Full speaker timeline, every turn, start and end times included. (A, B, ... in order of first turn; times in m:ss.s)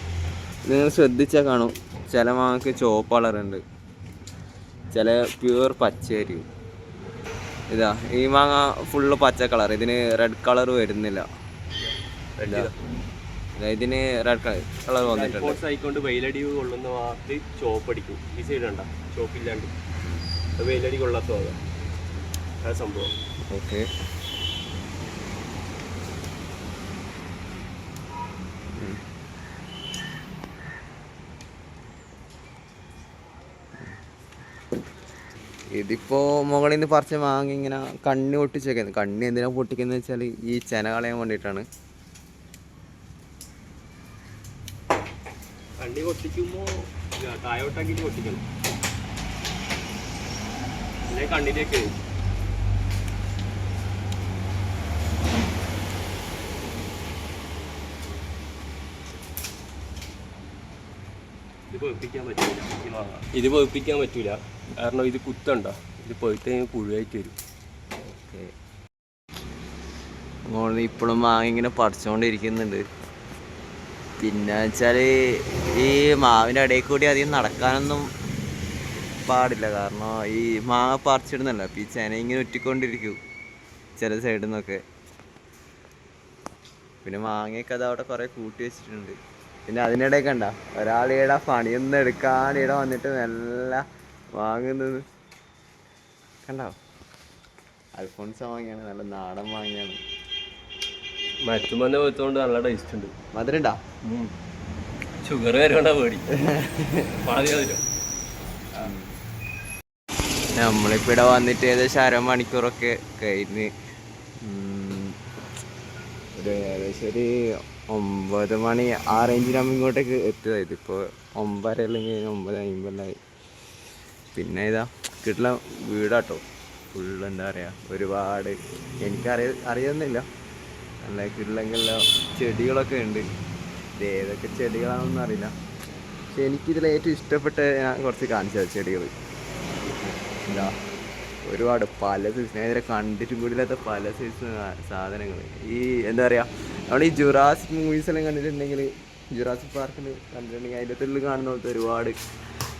0:00.7-0:03.6 A
0:04.9-0:06.4 A
0:07.7-0:11.2 A
0:12.4-0:12.7 B
0:13.6-0:15.6 A
0:15.0-0:19.7 B
0:20.6-0:21.6 B
0:22.6-0:23.1 B
0:23.5-0:23.8 A
0:35.8-0:41.6 A
0:45.8-0:48.4 B
0:51.1-0:51.9 B
1:01.7-1:07.4 B
1:08.1-1:08.5 A
1:10.5-1:12.8 A
1:14.2-1:18.1 A
1:19.1-1:23.2 A
1:24.0-1:24.8 A
1:27.0-1:29.2 A
1:29.7-1:33.8 A
1:34.4-1:35.0 A
1:36.4-1:36.7 A
1:38.0-1:40.0 A
1:41.4-1:43.1 B
1:43.3-1:43.8 A
1:44.0-1:44.3 B
1:45.2-1:46.3 B
1:46.4-1:47.0 A
1:47.2-1:47.8 B
1:48.8-1:49.1 A
1:50.6-1:53.7 A
1:54.4-1:55.1 A
1:56.4-1:57.3 A
1:57.9-2:03.2 A
2:04.3-2:06.4 A
2:06.9-2:10.2 A
2:11.0-2:13.2 A
2:14.0-2:15.5 A
2:16.3-2:19.1 A
2:20.5-2:20.7 A
2:21.4-2:32.2 A